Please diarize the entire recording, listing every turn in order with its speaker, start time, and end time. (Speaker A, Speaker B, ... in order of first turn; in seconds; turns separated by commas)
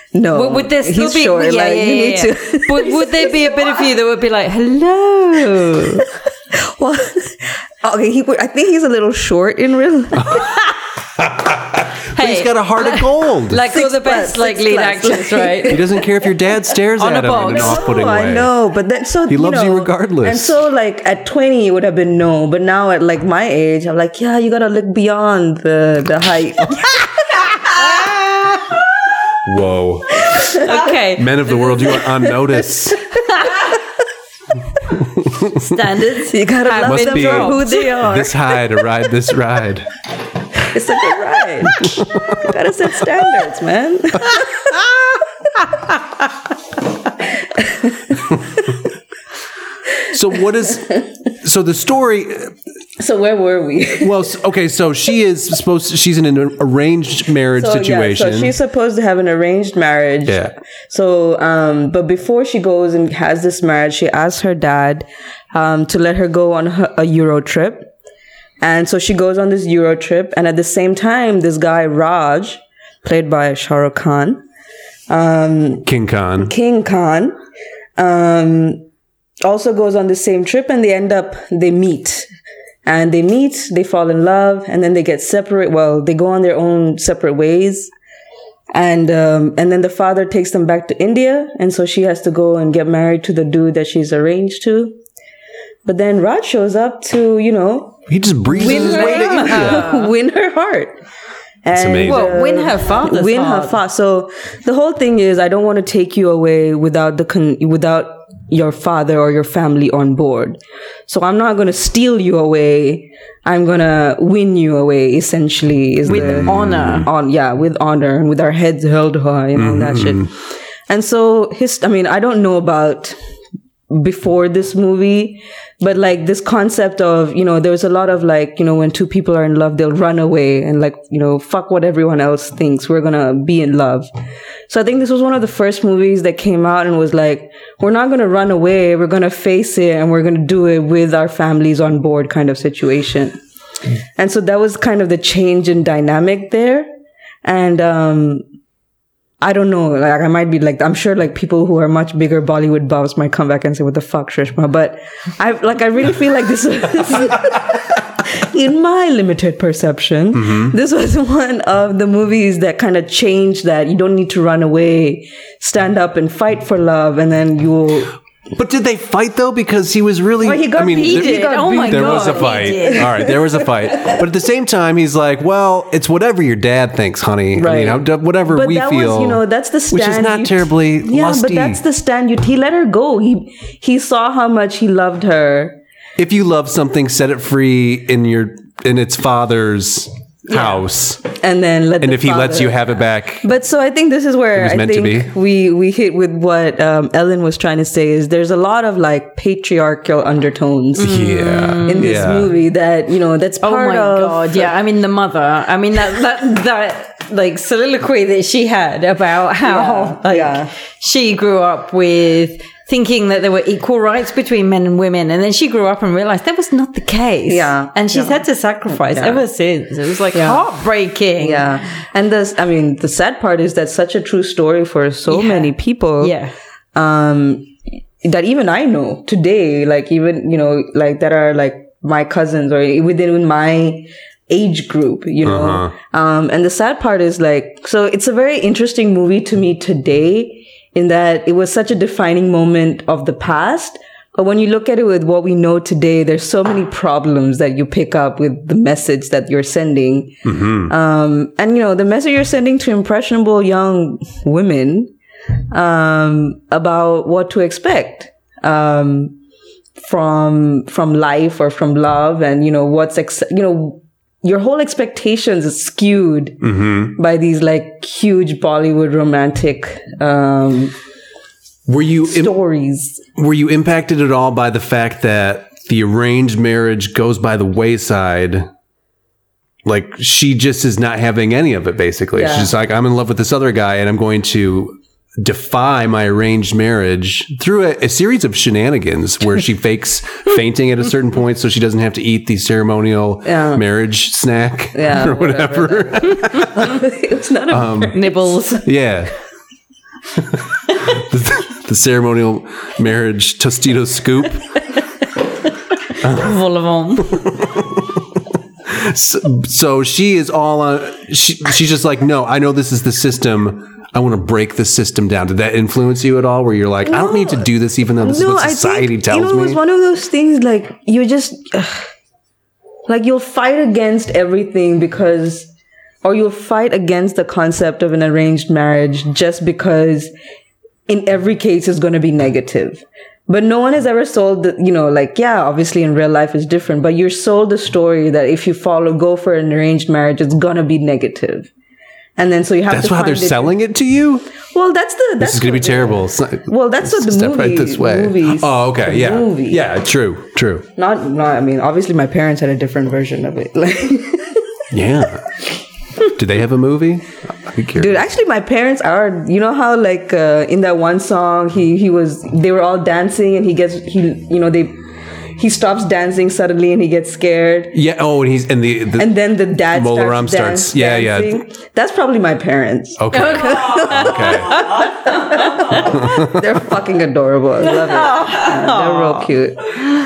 Speaker A: 0.1-3.7, Speaker B: 0.3-6.1, Speaker A: 5.5-10.4, Speaker C: 11.2-13.7, Speaker B: 12.1-15.9, Speaker A: 13.6-15.8, Speaker C: 15.7-18.5, Speaker B: 17.0-17.9, Speaker A: 17.4-27.0, Speaker C: 19.3-20.6, Speaker C: 29.4-33.0, Speaker B: 30.6-32.0, Speaker B: 33.3-33.7, Speaker C: 35.0-35.6, Speaker B: 35.6-38.0, Speaker A: 36.3-38.4, Speaker C: 36.8-39.9, Speaker A: 40.7-44.7, Speaker C: 41.8-42.4, Speaker A: 47.6-48.6, Speaker C: 50.1-52.5, Speaker A: 53.0-54.3, Speaker C: 54.0-58.6, Speaker A: 57.6-67.9, Speaker C: 60.3-60.5, Speaker A: 68.6-74.4, Speaker A: 75.1-77.4, Speaker C: 75.9-76.5, Speaker A: 78.0-78.9, Speaker A: 79.4-82.3, Speaker A: 82.8-87.9, Speaker A: 88.7-95.0, Speaker A: 95.8-100.9, Speaker C: 98.1-99.9, Speaker B: 98.6-100.1, Speaker A: 101.6-120.3, Speaker C: 101.7-102.3, Speaker B: 102.0-103.8, Speaker C: 116.1-117.1, Speaker B: 116.1-117.1, Speaker C: 119.5-120.3, Speaker A: 120.9-123.2, Speaker A: 123.9-134.1, Speaker A: 134.7-143.4, Speaker A: 144.2-146.9, Speaker A: 147.4-148.4, Speaker A: 149.4-168.1, Speaker C: 160.3-160.8, Speaker C: 168.5-181.8, Speaker A: 170.4-173.3, Speaker B: 170.8-173.3, Speaker A: 177.6-185.8, Speaker C: 186.2-191.2, Speaker A: 190.5-190.8, Speaker A: 191.3-201.2, Speaker C: 192.0-193.5, Speaker C: 194.5-195.3, Speaker C: 201.0-202.5, Speaker B: 201.0-202.2, Speaker A: 201.8-204.7, Speaker B: 203.6-221.8, Speaker A: 209.6-210.7, Speaker A: 217.5-218.4, Speaker A: 219.1-219.4, Speaker A: 220.3-220.6, Speaker A: 221.4-226.3, Speaker B: 225.3-226.5, Speaker A: 226.9-227.7, Speaker A: 228.2-255.1, Speaker C: 235.4-235.9, Speaker C: 250.4-250.9, Speaker A: 255.7-259.4, Speaker A: 260.0-270.9, Speaker C: 266.6-267.1, Speaker C: 271.9-272.5, Speaker A: 272.2-273.2, Speaker C: 273.4-278.7, Speaker C: 279.9-297.1, Speaker A: 282.4-282.7, Speaker A: 293.4-293.8, Speaker A: 294.9-298.8, Speaker C: 297.7-298.2, Speaker B: 298.1-298.9, Speaker C: 298.8-299.3, Speaker C: 300.4-304.7, Speaker B: 306.1-307.4, Speaker C: 306.2-306.6, Speaker C: 307.2-319.8, Speaker A: 317.1-322.1, Speaker A: 323.1-325.7, Speaker A: 326.2-330.3, Speaker A: 331.1-341.7, Speaker A: 342.4-343.8, Speaker C: 342.9-344.5, Speaker A: 344.7-349.8, Speaker C: 345.4-350.9, Speaker A: 351.0-354.6, Speaker C: 354.9-355.5, Speaker C: 356.3-358.3, Speaker A: 358.0-365.0, Speaker A: 365.6-368.0, Speaker C: 367.9-371.6, Speaker A: 369.2-379.9, Speaker C: 373.2-375.0, Speaker B: 373.5-376.0, Speaker C: 376.0-376.6, Speaker B: 377.9-379.5